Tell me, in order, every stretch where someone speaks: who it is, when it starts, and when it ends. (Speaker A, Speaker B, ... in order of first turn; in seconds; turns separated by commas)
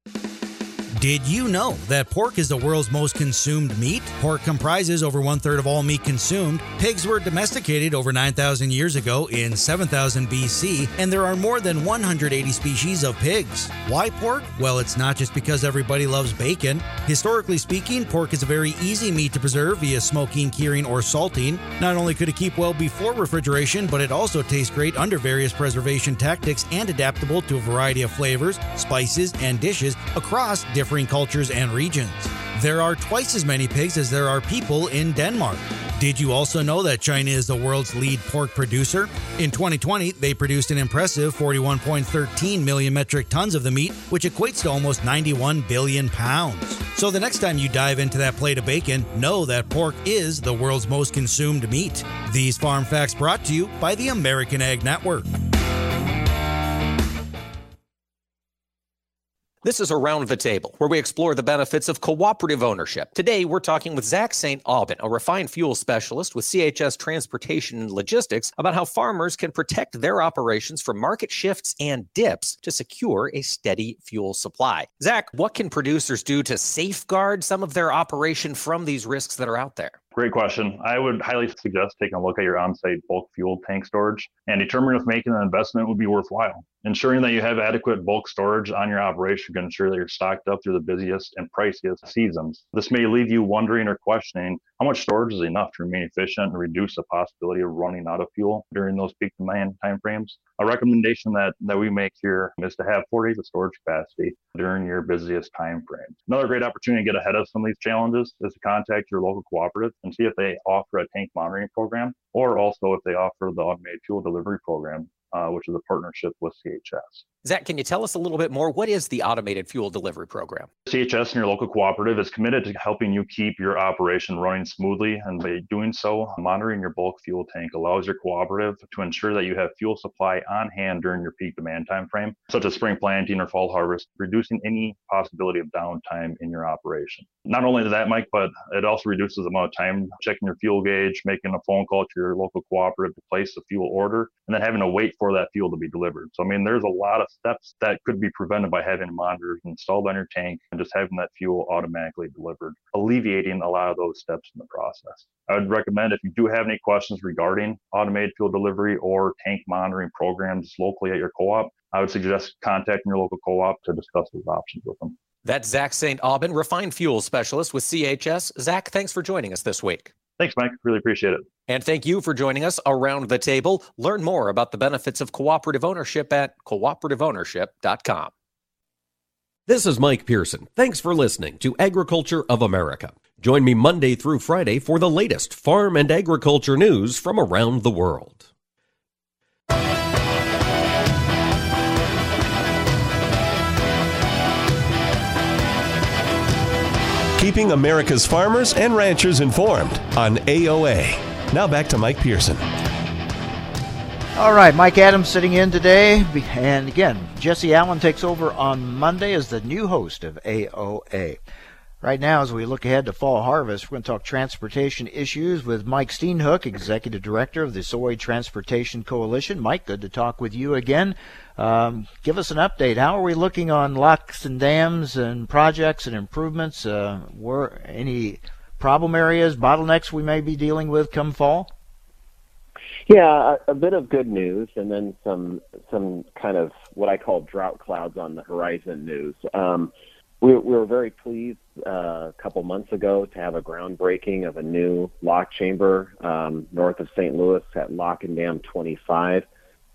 Speaker A: 1.0-55.3, Speaker B: 59.6-80.0, Speaker C: 80.1-117.2, Speaker B: 117.4-120.7, Speaker C: 120.9-165.2, Speaker B: 165.4-170.1, Speaker C: 170.4-171.5, Speaker B: 171.7-178.3, Speaker D: 179.7-188.5, Speaker E: 197.4-202.7, Speaker F: 204.3-211.4, Speaker F: 212.0-231.7, Speaker G: 233.1-239.9, Speaker G: 240.4-249.4